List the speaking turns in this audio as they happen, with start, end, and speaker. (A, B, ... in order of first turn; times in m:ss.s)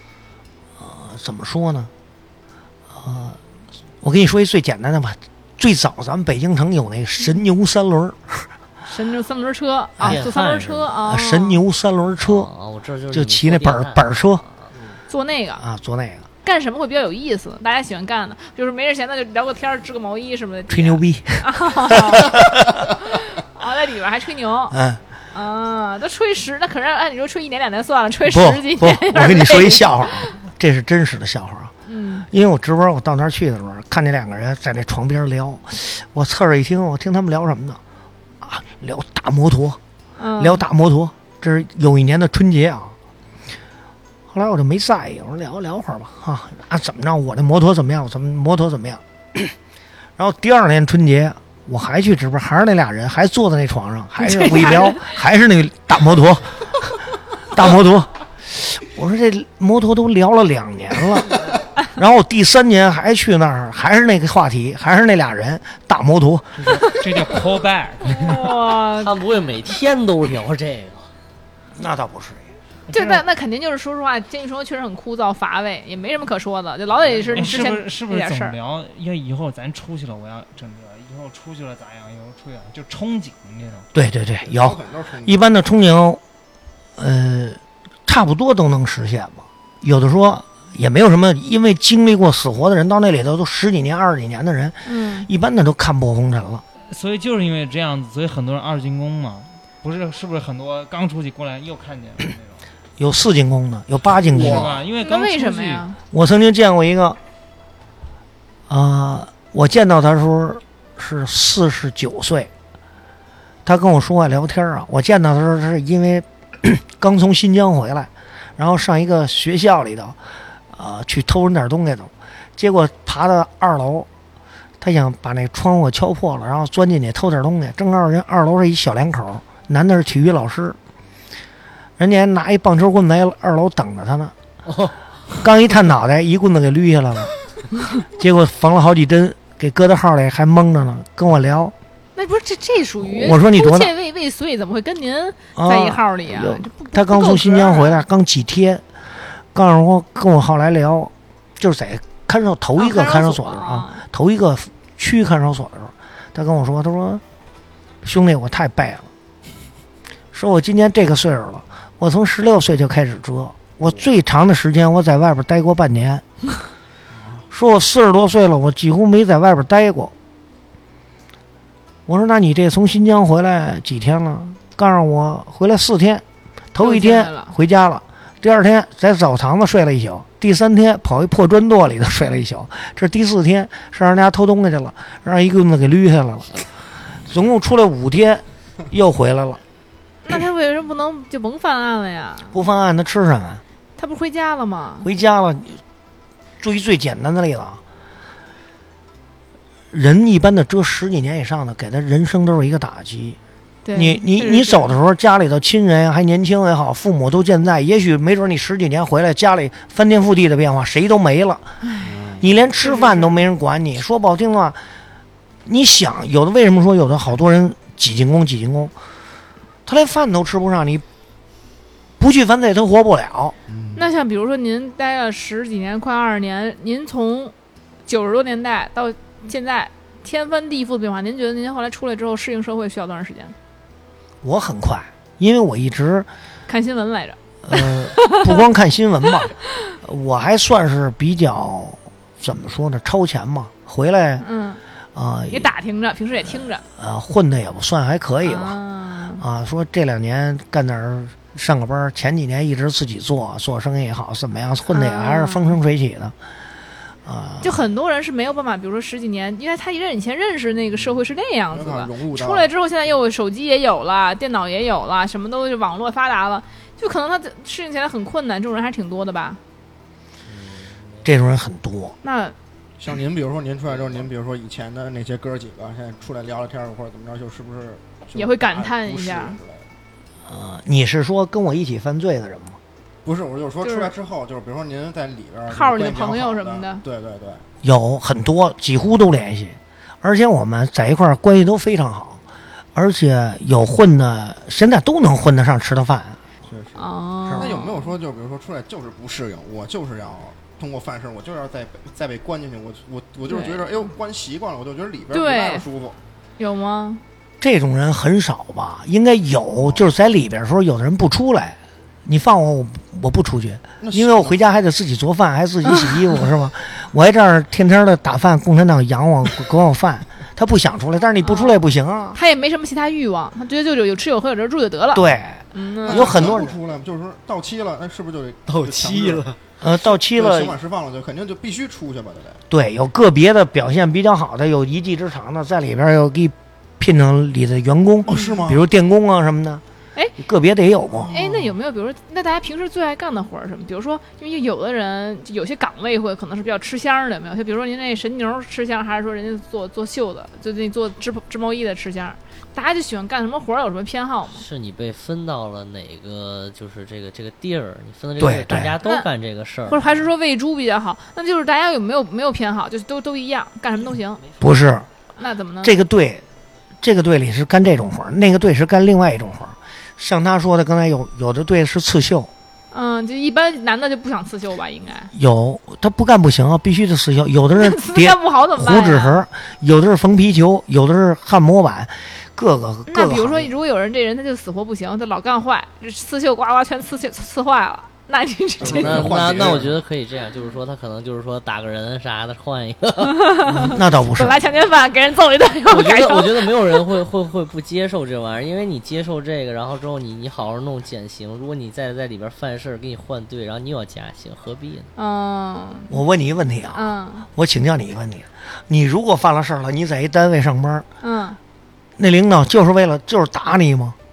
0:00.8-0:01.9 A
0:02.9-0:03.4 A
0:04.0-0:08.5 A
0:08.8-0:11.6 B
0:10.0-0:10.2 A
0:10.0-0:10.9 C
0:11.0-0:12.5 A
0:12.2-0:14.6 C
0:13.1-0:14.4 A
0:15.1-0:15.6 B
0:15.6-0:16.3 A
0:16.4-0:22.4 B
0:20.7-0:22.8 A
0:23.0-0:24.8 B
0:24.7-0:25.0 A
0:25.3-0:30.3 B
0:28.3-0:31.7 A
0:31.9-0:32.3 B
0:32.3-0:37.8 A
0:38.4-0:39.8 A
0:40.2-0:40.6 B
0:40.4-0:42.9 A
0:44.3-0:49.5 A
0:50.2-0:56.9 A
0:54.2-0:55.0 B
0:57.5-1:06.8 A
1:06.6-1:08.6 D
1:06.9-1:07.4 B
1:08.0-1:09.1 B
1:09.0-1:11.1 C
1:11.8-1:12.4 A
1:12.9-1:13.2 D
1:12.9-1:18.6 B
1:17.1-1:17.5 E
1:17.3-1:23.9 D
1:23.9-1:26.2 A
1:24.4-1:25.4 E
1:27.0-1:36.6 A
1:34.8-1:35.3 B
1:36.9-1:42.6 D
1:43.0-1:44.8 A
1:44.3-1:44.7 E
1:44.3-1:45.9 D
1:45.0-1:46.0 B
1:46.1-1:47.2 A
1:48.7-1:52.5 A
1:53.6-2:00.2 A
2:00.7-2:04.1 A
2:04.8-2:10.8 A
2:12.0-2:14.3 A
2:14.6-2:15.0 C
2:15.4-2:17.3 A
2:18.2-2:21.7 A
2:22.2-2:28.0 B
2:23.0-2:23.9 A
2:25.6-2:28.8 A
2:29.5-2:37.2 A
2:32.8-2:34.0 B
2:38.0-2:39.1 A
2:40.3-2:46.2 A
2:47.2-2:47.4 E
2:47.5-2:50.1 A
2:52.1-3:06.7 A
2:56.8-2:57.5 B
3:07.2-3:09.6 A
3:10.2-3:12.6 B
3:12.5-3:13.6 A
3:14.0-3:15.1 B
3:15.0-3:15.8 A
3:16.6-3:17.8 A
3:19.9-3:23.4 A
3:23.8-3:25.0 B
3:23.9-3:31.8 A
3:31.8-3:32.1 B
3:32.0-3:32.5 E
3:32.4-3:34.8 A
3:32.8-3:33.4 B
3:35.6-3:38.9 A
3:39.8-3:41.0 A
3:42.2-3:43.6 A
3:43.7-3:44.1 E
3:44.0-3:47.5 B
3:48.0-3:53.5 B
3:54.4-3:56.3 A
3:56.7-3:58.6 B
3:57.6-4:04.4 A
4:04.4-4:04.8 B
4:05.1-4:05.7 A
4:05.5-4:06.8 B
4:07.0-4:08.8 A
4:08.4-4:09.4 B
4:09.4-4:16.3 A
4:14.9-4:15.8 B
4:17.2-4:17.8 A
4:17.6-4:29.6 B
4:21.7-4:22.7 E
4:30.5-4:31.3 C
4:31.2-4:32.2 A
4:32.2-4:32.5 B
4:33.0-4:39.9 E
4:38.3-4:39.6 B
4:40.5-4:42.8 A
4:43.2-4:47.6 E
4:43.8-4:44.1 B
4:45.7-4:47.0 B
4:47.8-4:52.4 A
4:52.9-4:56.4 A
4:56.6-5:06.2 E
4:56.9-4:58.1 B
5:03.5-5:03.9 B
5:05.3-5:05.8 B
5:06.6-5:07.2 B
5:07.6-5:22.4 A
5:14.0-5:14.6 E
5:21.4-5:21.8 B
5:22.3-5:26.4 B
5:25.1-5:26.8 A
5:26.0-5:32.6 E
5:29.8-5:30.8 A
5:32.7-5:39.8 A
5:38.2-5:38.8 E
5:38.3-5:38.6 B
5:40.4-5:41.3 A
5:41.2-5:41.8 E
5:41.3-5:54.6 B
5:54.5-6:00.2 C
5:58.4-5:59.0 A
5:59.9-6:04.4 B
6:04.6-6:05.1 A
6:05.4-6:06.0 B
6:05.8-6:06.4 A
6:07.0-6:12.5 A
6:12.9-6:15.3 B
6:15.3-6:23.7 A
6:17.8-6:19.4 B
6:23.1-6:29.6 B
6:28.8-6:30.0 E
6:28.8-6:33.6 C
6:33.2-6:36.8 B
6:33.8-6:34.6 A
6:35.9-6:45.1 C
6:45.2-6:46.2 B
6:46.1-6:51.1 A
6:46.9-6:47.5 B
6:51.2-6:51.6 B
6:52.2-6:54.2 A